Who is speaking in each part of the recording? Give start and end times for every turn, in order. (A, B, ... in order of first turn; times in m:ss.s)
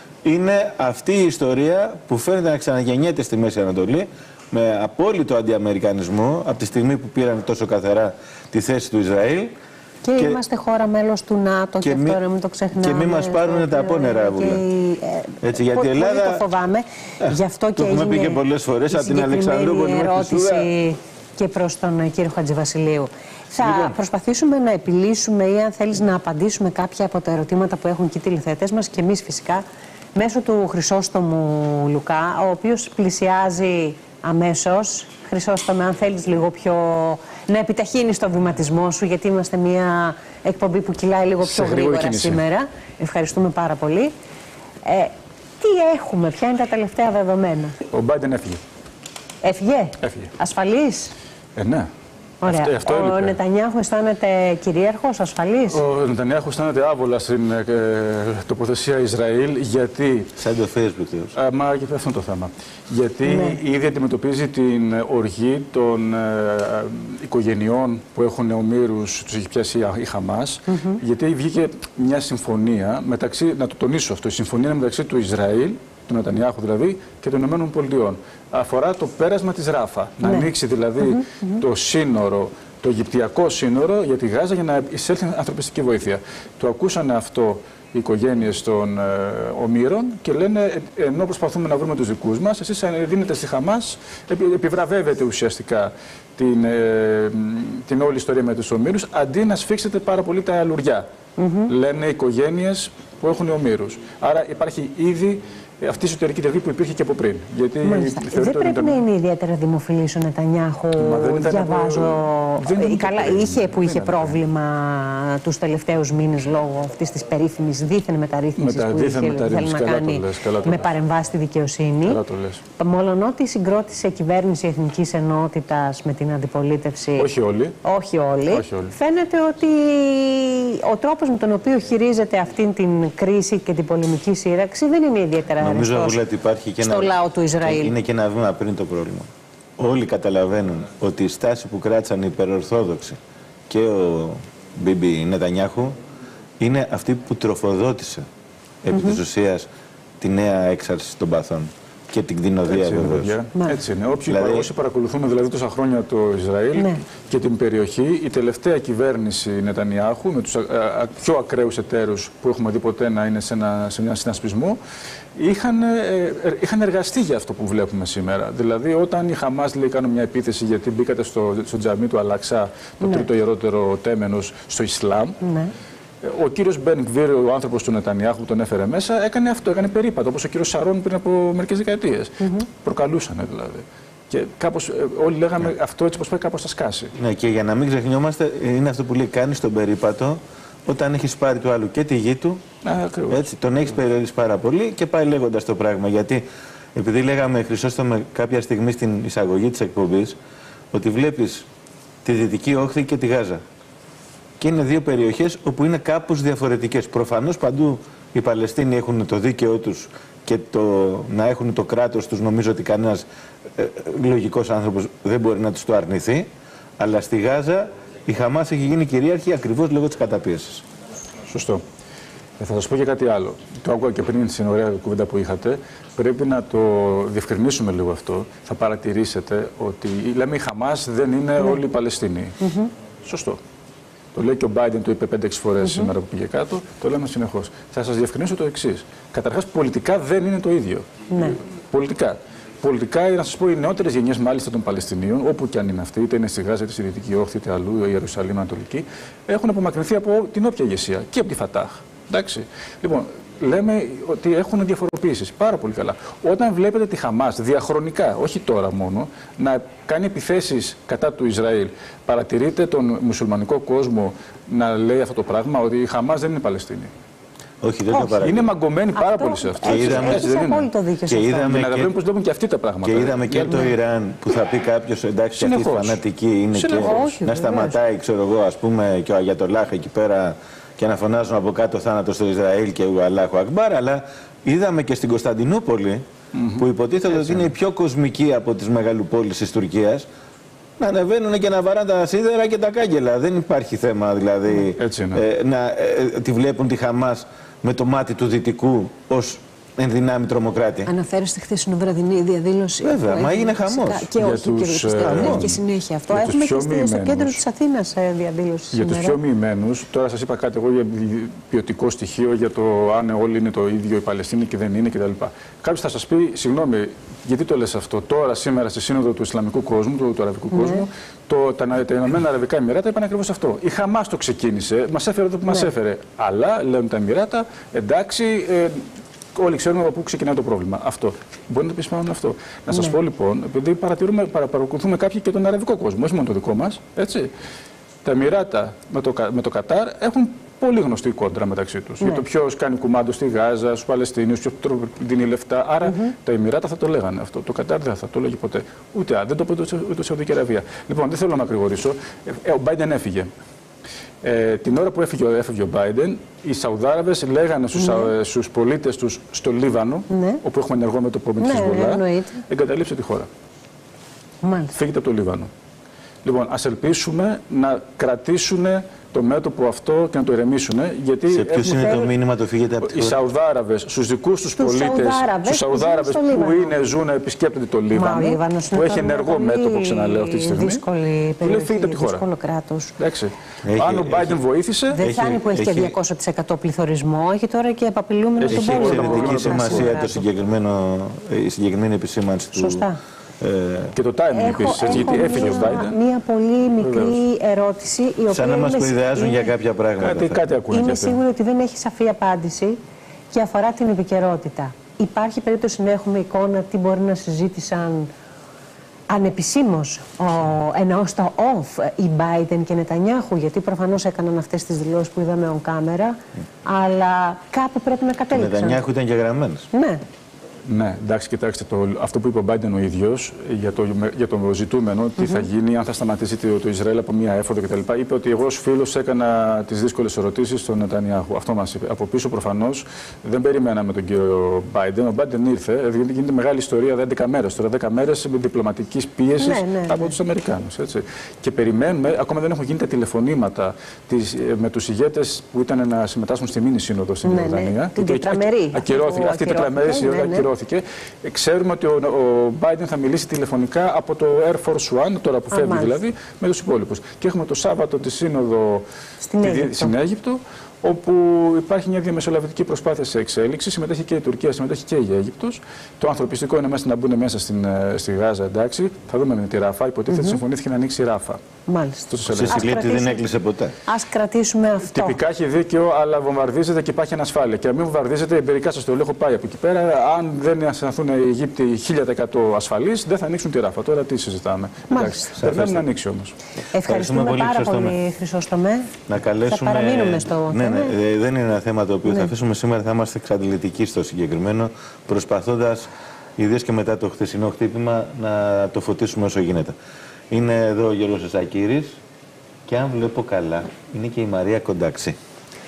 0:00.2-0:09.5 A
0:10.0-0:29.6 B
0:11.8-0:12.2 A
0:12.8-0:14.6 A
0:15.4-0:16.4 A
0:17.2-0:20.7 A
0:23.6-0:24.0 A
0:30.2-0:44.1 B
0:41.4-0:42.4 C
0:44.8-0:47.8 B
0:47.9-0:48.6 C
0:49.4-0:51.1 B
0:50.0-0:50.3 C
0:51.6-0:51.9 C
0:52.4-0:55.8 B
0:52.4-0:53.4 C
0:55.7-1:00.3 C
1:00.4-1:01.4 A
1:01.4-1:41.1 C
1:03.3-1:03.6 B
1:10.7-1:11.0 B
1:20.2-1:20.5 B
1:21.0-1:21.6 B
1:41.4-1:41.7 B
1:41.7-1:49.0 C
1:47.8-2:02.2 B
1:51.0-1:54.4 C
1:58.6-2:00.9 C
2:02.0-2:02.6 C
2:02.8-2:07.3 B
2:07.2-2:07.8 C
2:07.8-2:16.2 B
2:08.5-2:08.9 C
2:15.6-2:23.2 A
2:16.8-2:17.9 B
2:23.7-2:26.0 A
2:26.6-2:28.3 A
2:28.8-2:29.7 A
2:28.9-2:29.2 B
2:30.2-2:33.3 A
2:32.7-2:44.8 C
2:34.3-2:34.7 A
2:36.8-2:37.0 B
2:45.4-2:55.4 C
2:55.4-2:55.7 B
2:56.2-3:07.1 C
3:02.4-3:02.7 B
3:07.2-3:12.6 A
3:12.8-3:13.4 C
3:13.3-3:20.4 A
3:20.9-3:21.7 A
3:22.2-3:23.6 A
3:24.6-3:40.8 A
3:41.5-3:41.8 C
3:42.6-3:52.6 C
3:52.6-3:52.9 B
3:53.2-3:53.6 C
3:54.4-4:27.1 C
3:55.8-3:56.1 B
4:01.3-4:01.6 B
4:27.8-4:28.7 A
4:28.2-4:30.9 C
4:29.2-4:31.8 B
4:29.8-4:30.5 A
4:31.3-4:32.2 A
4:31.6-4:33.9 C
4:33.0-4:46.2 A
4:35.6-4:36.2 C
4:36.8-4:37.4 C
4:36.8-4:38.0 B
4:46.5-4:47.7 C
4:46.8-4:50.3 A
4:51.0-5:01.1 A
4:55.0-4:55.4 C
5:01.1-5:09.4 B
5:03.0-5:04.3 A
5:04.4-5:05.8 C
5:05.2-5:05.7 A
5:06.3-5:07.6 C
5:08.9-5:37.5 C
5:20.7-5:21.1 B
5:38.2-5:53.5 C
5:46.0-5:46.3 B
5:54.4-6:03.5 C
5:58.0-5:58.3 B
6:00.3-6:00.6 B
6:01.6-6:02.6 B
6:04.6-6:05.0 B
6:04.9-6:05.7 C
6:06.4-6:12.3 C
6:11.5-6:13.4 A
6:13.0-6:21.0 C
6:14.8-6:16.9 B
6:18.1-6:23.1 B
6:21.6-6:22.4 C
6:23.2-6:25.2 C
6:23.9-6:24.6 A
6:25.1-6:30.4 B
6:25.2-6:26.2 A
6:28.6-6:30.1 C
6:28.7-6:33.1 A
6:32.8-6:33.2 B
6:33.6-6:34.2 A
6:34.1-6:36.2 C
6:34.5-6:39.7 B
6:35.2-6:35.8 A
6:37.0-6:37.4 C
6:38.5-6:40.6 A
6:40.2-6:41.4 C
6:40.9-6:43.0 B
6:43.5-6:48.3 B
6:49.3-6:59.0 B
6:58.5-6:59.9 A
6:59.9-7:00.2 B
7:00.9-7:39.0 C
7:05.4-7:05.7 B
7:19.6-7:20.4 B
7:27.4-7:30.7 B
7:35.7-7:36.2 B
7:39.4-7:40.1 B
7:39.6-7:51.6 C
7:50.3-7:50.6 B
7:51.9-7:53.5 B
7:52.3-7:52.9 C
7:52.5-7:54.0 A
7:54.1-7:55.4 B
7:55.1-8:06.6 C
8:05.1-8:05.5 B
8:05.6-8:06.1 A
8:06.9-8:09.1 B
8:07.0-8:08.2 A
8:09.3-8:20.0 A
8:09.7-8:11.1 B
8:20.5-8:22.2 A
8:22.9-8:25.4 A